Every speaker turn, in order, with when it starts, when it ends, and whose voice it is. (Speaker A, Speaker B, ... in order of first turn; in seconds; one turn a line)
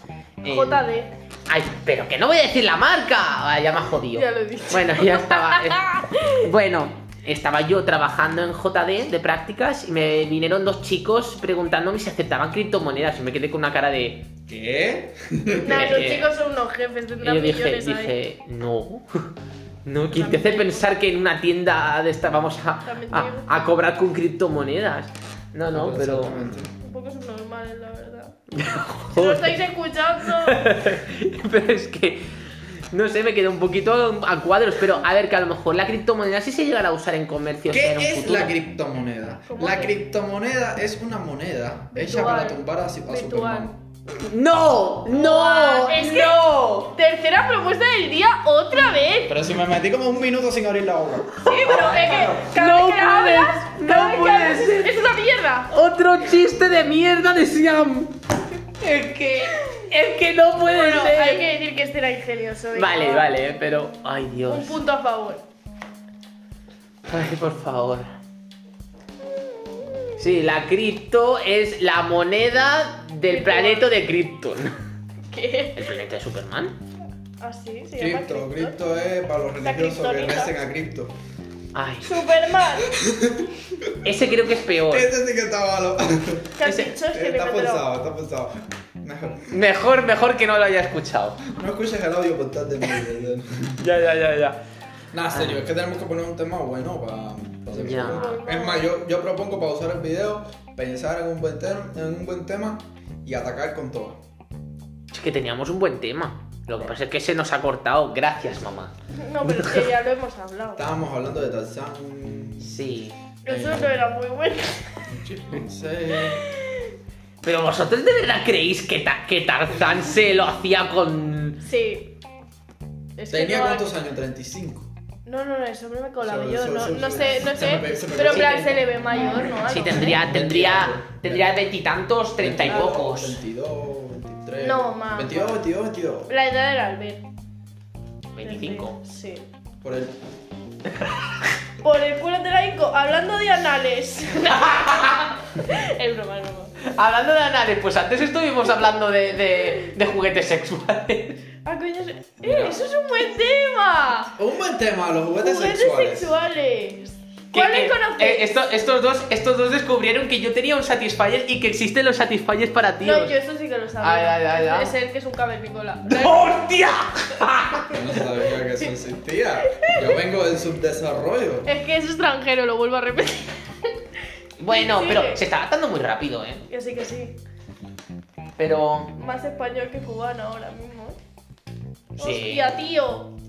Speaker A: 0.4-0.8
Speaker B: 0.4-1.1
Speaker A: 1.5-14.3
Speaker B: 4.1-6.5
Speaker C: 14.5-16.0
Speaker B: 15.6-18.1
Speaker A: 15.6-16.3
Speaker A: 17.2-19.3
Speaker A: 19.8-26.5
Speaker B: 20.1-20.9
Speaker B: 22.8-23.6
Speaker C: 25.7-26.7
Speaker B: 26.8-28.4
Speaker A: 28.5-29.6
Speaker B: 29.1-30.7
Speaker A: 30.2-38.5
Speaker C: 37.7-43.8
Speaker B: 39.5-39.9
Speaker B: 41.9-43.7
Speaker A: 44.1-46.9
Speaker B: 45.1-49.4
Speaker C: 49.2-51.4
Speaker B: 51.4-55.7
Speaker A: 51.4-55.2
Speaker A: 55.7-61.5
Speaker B: 60.7-63.3
Speaker A: 62.7-64.8
Speaker B: 64.5-65.4
Speaker A: 67.0-68.1
Speaker B: 69.3-70.2
Speaker A: 70.2-74.8
Speaker B: 73.3-73.9
Speaker B: 75.3-75.9
Speaker A: 75.8-76.8
Speaker B: 77.4-78.8
Speaker C: 78.0-81.1
Speaker B: 79.6-80.5
Speaker A: 81.7-82.2
Speaker B: 82.0-82.9
Speaker C: 82.8-84.0
Speaker A: 84.0-85.1
Speaker C: 84.9-86.5
Speaker B: 86.6-87.8
Speaker A: 86.6-86.9
Speaker C: 87.1-89.5
Speaker A: 89.5-91.4
Speaker C: 91.4-94.0
Speaker A: 93.8-94.6
Speaker C: 95.1-104.2
Speaker A: 95.3-95.6
Speaker A: 97.7-98.3
Speaker B: 97.9-98.9
Speaker A: 105.1-109.9
Speaker B: 109.2-110.8
Speaker C: 110.8-112.7
Speaker A: 112.6-113.2
Speaker B: 113.4-115.0
Speaker C: 113.5-114.0
Speaker C: 115.1-116.4
Speaker B: 116.2-116.8
Speaker A: 117.4-121.6
Speaker B: 121.6-122.1
Speaker B: 123.2-123.9
Speaker C: 123.3-124.9
Speaker B: 125.2-130.2
Speaker C: 126.2-128.8
Speaker A: 128.2-133.4
Speaker C: 129.9-131.7
Speaker C: 132.4-136.3
Speaker B: 132.7-132.9
Speaker B: 134.6-135.6
Speaker B: 136.3-137.2
Speaker A: 138.3-139.0
Speaker B: 138.4-139.4
Speaker C: 139.8-140.2
Speaker B: 141.8-146.8
Speaker A: 144.5-145.3
Speaker A: 146.8-151.4
Speaker B: 151.6-154.3
Speaker A: 152.4-152.7
Speaker C: 154.4-156.3
Speaker B: 155.4-158.5
Speaker A: 157.5-163.3
Speaker B: 163.0-166.5
Speaker A: 164.0-164.9
Speaker A: 166.1-168.0
Speaker C: 167.9-171.7
Speaker B: 169.7-170.2
Speaker B: 171.7-173.9
Speaker A: 174.6-176.6
Speaker B: 174.7-175.4
Speaker B: 176.7-177.3
Speaker A: 178.6-179.1
Speaker B: 179.2-181.2
Speaker B: 182.2-183.3
Speaker A: 182.2-182.8